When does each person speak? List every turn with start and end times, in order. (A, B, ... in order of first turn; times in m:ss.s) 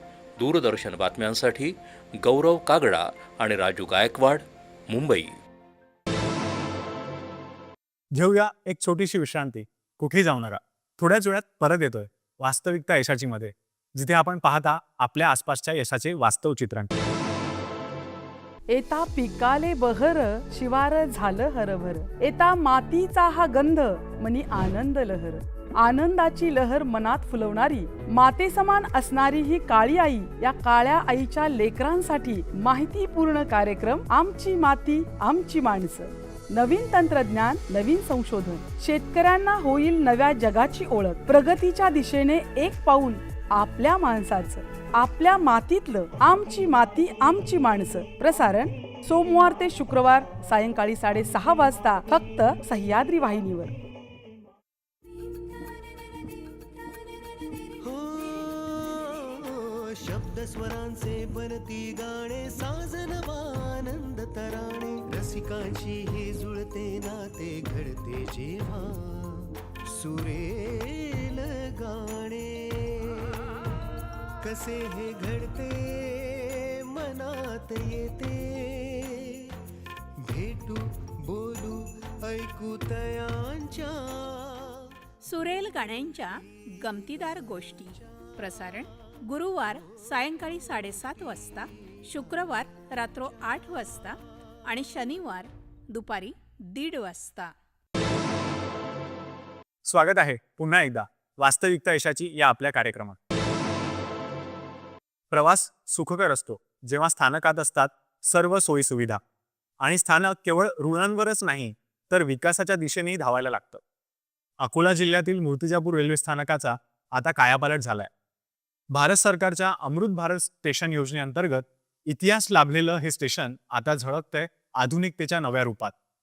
0:00.4-0:05.4 A
0:08.1-0:16.9 B
0:18.7-0:53.7 C
0:57.8-1:13.5 D
1:14.4-1:19.4 D
1:20.2-1:24.8 D
1:25.2-1:37.5 E
1:39.8-1:43.2 B
1:45.3-1:49.2 B
1:49.8-1:53.8 B
1:54.6-1:58.1 B
1:58.9-2:06.0 B